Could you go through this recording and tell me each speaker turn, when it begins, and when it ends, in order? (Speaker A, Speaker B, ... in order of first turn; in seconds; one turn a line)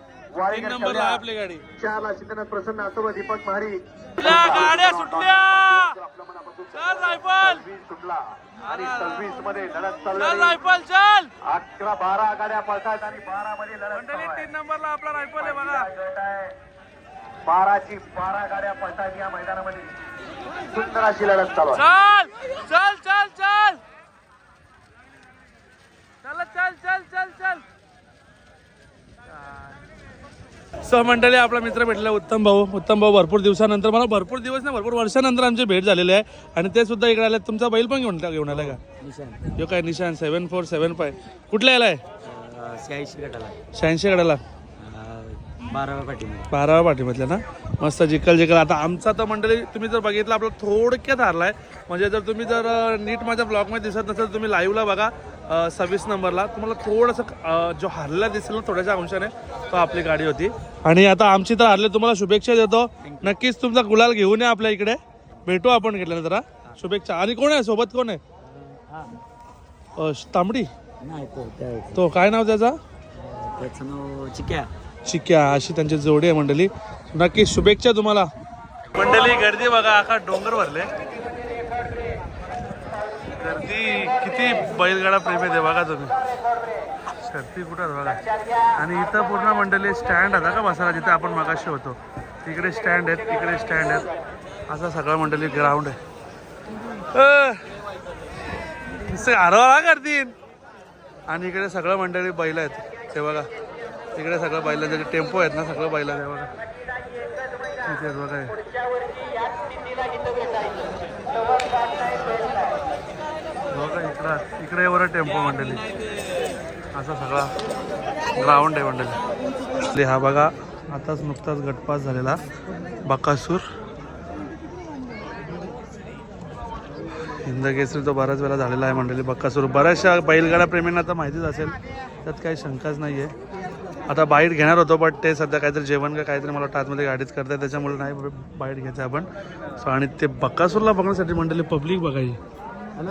Speaker A: 0.3-1.2
Speaker B: 0.4-1.6
Speaker A: 1.8-10.6
Speaker B: 4.2-6.0
Speaker B: 6.7-7.6
Speaker B: 8.6-9.5
Speaker B: 10.1-11.3
Speaker A: 11.5-14.5
Speaker B: 13.9-15.9
Speaker A: 15.5-16.6
Speaker A: 17.5-20.0
Speaker A: 20.7-21.8
Speaker B: 21.7-23.8
Speaker B: 26.2-27.6
Speaker B: 30.8-38.8
Speaker C: 38.5-39.5
Speaker B: 39.6-42.0
Speaker C: 42.2-43.6
Speaker B: 43.7-44.4
Speaker C: 44.8-46.5
Speaker B: 46.5-68.2
Speaker C: 68.7-69.1
Speaker B: 70.0-70.7
Speaker C: 71.0-72.0
Speaker B: 72.0-72.8
Speaker C: 73.2-74.7
Speaker B: 75.1-78.3
Speaker B: 78.9-80.9
Speaker B: 83.4-86.2
Speaker B: 87.2-88.2
Speaker B: 88.8-94.1
Speaker B: 94.7-96.0
Speaker B: 97.1-97.6
Speaker B: 99.0-100.3
Speaker B: 101.3-103.5
Speaker B: 104.2-106.5
Speaker B: 107.8-108.6
Speaker B: 113.7-115.8
Speaker B: 116.9-117.5
Speaker B: 118.3-119.2
Speaker B: 119.9-122.4
Speaker B: 123.0-123.6
Speaker B: 127.4-133.3
Speaker B: 134.1-142.4